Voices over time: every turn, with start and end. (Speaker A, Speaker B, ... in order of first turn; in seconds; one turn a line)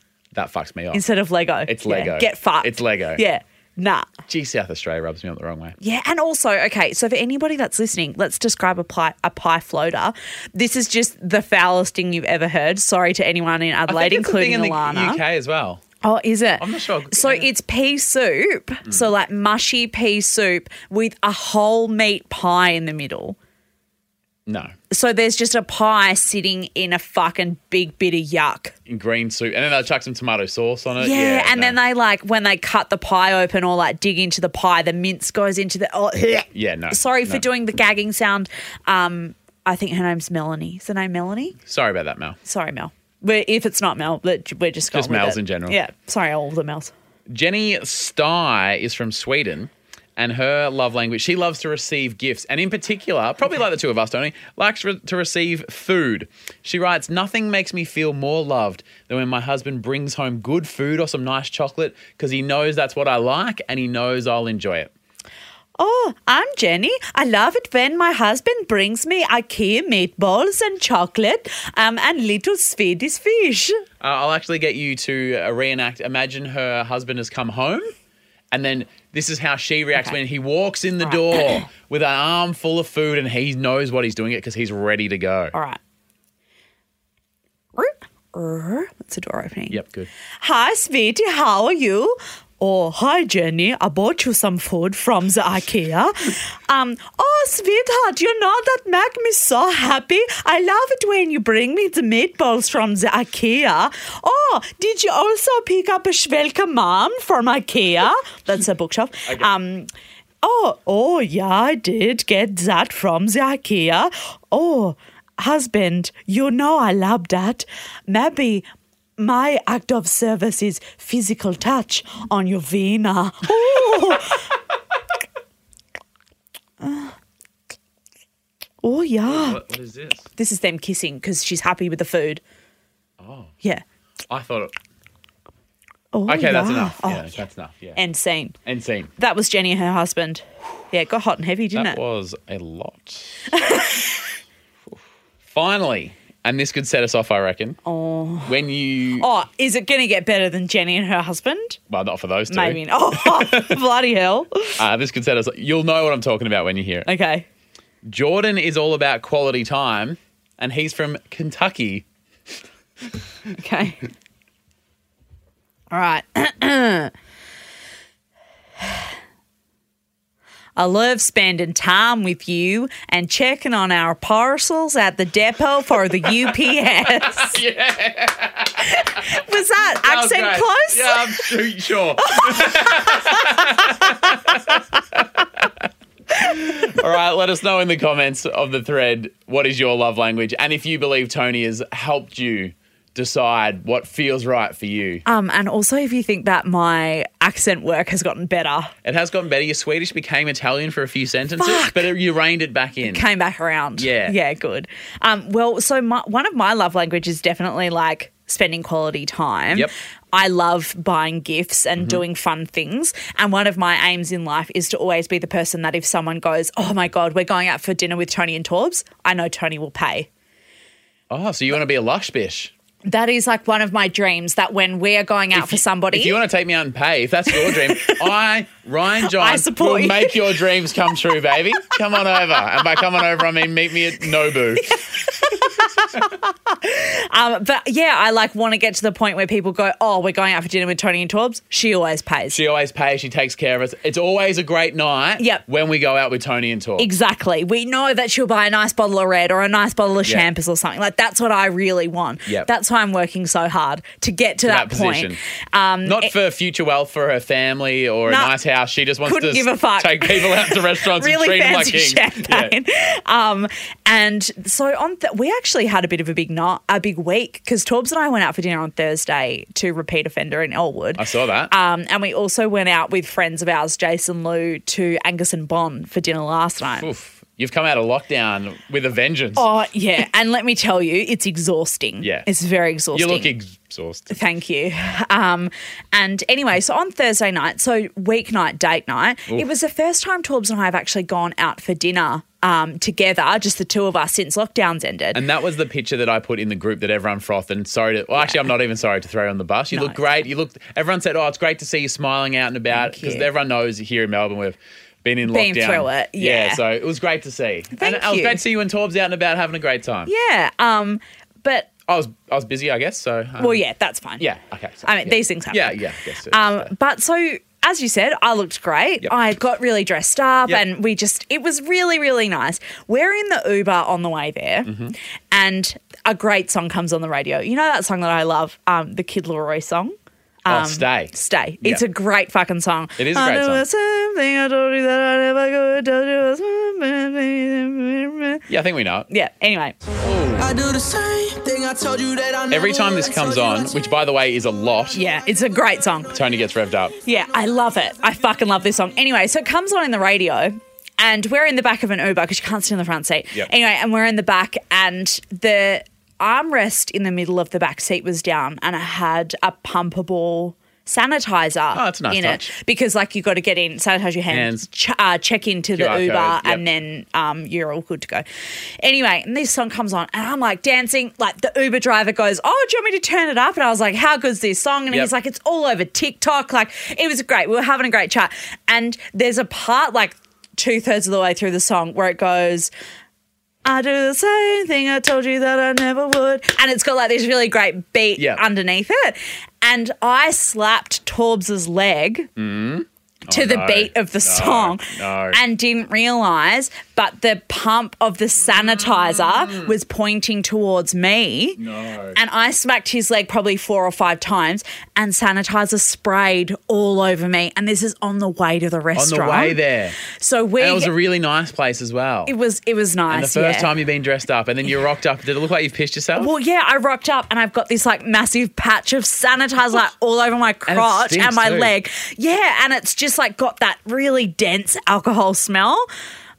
Speaker A: 0.3-1.1
Speaker B: 0.9-4.1
Speaker A: 1.7-3.2
Speaker A: 4.3-5.8
Speaker B: 5.8-15.2
Speaker A: 13.9-15.8
Speaker B: 16.0-23.4
Speaker A: 16.6-17.5
Speaker A: 24.5-24.7
Speaker B: 24.9-28.8
Speaker A: 28.9-31.8
Speaker B: 31.0-41.6
Speaker A: 36.5-37.5
Speaker A: 41.7-42.4
Speaker B: 42.5-46.9
Speaker A: 44.9-45.8
Speaker A: 47.3-64.9
Speaker B: 65.8-73.8
Speaker A: 74.0-77.9
Speaker A: 78.5-85.5
Speaker B: 81.0-81.6
Speaker B: 85.5-85.8
Speaker B: 87.8-89.8
Speaker A: 89.7-90.1
Speaker B: 90.4-109.9
Speaker B: 110.4-118.7
Speaker B: 119.2-124.5
Speaker B: 126.8-127.2
Speaker B: 128.8-129.6
Speaker A: 129.3-130.3
Speaker B: 130.4-132.4
Speaker A: 133.2-133.5
Speaker A: 134.3-134.7
Speaker B: 136.1-137.3
Speaker A: 136.3-138.0
Speaker B: 138.0-138.6
Speaker A: 138.7-139.1
Speaker B: 139.2-142.0
Speaker A: 141.8-143.6
Speaker B: 143.5-144.0
Speaker A: 145.5-147.8
Speaker B: 147.8-148.6
Speaker A: 148.5-149.3
Speaker B: 149.2-151.8
Speaker A: 151.9-153.8
Speaker B: 152.5-154.8
Speaker A: 154.8-157.1
Speaker B: 157.1-157.5
Speaker A: 158.0-162.1
Speaker B: 163.5-164.0
Speaker B: 165.9-167.1
Speaker B: 170.8-177.6
Speaker A: 177.2-179.2
Speaker B: 178.8-181.5
Speaker A: 179.9-185.8
Speaker B: 182.2-183.8
Speaker A: 186.4-195.2
Speaker B: 195.2-198.9
Speaker A: 199.1-203.2
Speaker B: 201.6-202.1
Speaker B: 203.0-220.3
Speaker A: 204.0-204.4
Speaker A: 221.3-222.7
Speaker B: 223.1-226.3
Speaker A: 225.5-235.0
Speaker B: 227.5-228.3
Speaker B: 229.2-230.6
Speaker B: 235.0-242.6
Speaker A: 242.5-247.1
Speaker B: 247.0-256.3
Speaker A: 254.6-255.4
Speaker A: 256.1-262.8
Speaker B: 258.3-258.5
Speaker B: 259.2-277.1
Speaker A: 271.2-271.7
Speaker A: 277.0-279.6
Speaker B: 279.6-283.5
Speaker A: 282.2-282.5
Speaker A: 283.1-284.3
Speaker B: 284.3-295.4
Speaker A: 295.3-310.3
Speaker B: 298.4-298.7
Speaker B: 299.9-300.2
Speaker B: 302.9-303.5
Speaker B: 305.5-306.8
Speaker B: 307.9-308.6
Speaker B: 310.3-311.9
Speaker A: 312.1-313.8
Speaker B: 313.6-314.5
Speaker A: 314.4-316.9
Speaker B: 315.1-324.9
Speaker A: 324.9-325.1
Speaker B: 325.5-338.7
Speaker A: 330.7-332.0
Speaker A: 333.2-333.8
Speaker A: 338.7-339.3
Speaker B: 339.3-340.0
Speaker A: 340.2-340.8
Speaker C: 340.6-343.9
Speaker A: 342.7-345.2
Speaker B: 345.1-346.3
Speaker A: 346.3-347.2
Speaker B: 347.2-368.4
Speaker A: 361.9-362.7
Speaker A: 364.5-364.9
Speaker A: 366.0-366.8
Speaker B: 369.0-382.9
Speaker B: 383.9-392.5
Speaker A: 388.4-388.6
Speaker A: 392.6-395.6
Speaker B: 393.5-401.8
Speaker A: 398.7-399.9
Speaker A: 401.8-402.4
Speaker B: 402.4-411.1
Speaker A: 409.1-410.2
Speaker A: 410.8-412.5
Speaker B: 412.5-413.9
Speaker A: 413.3-416.5
Speaker B: 416.4-426.1
Speaker A: 420.9-421.9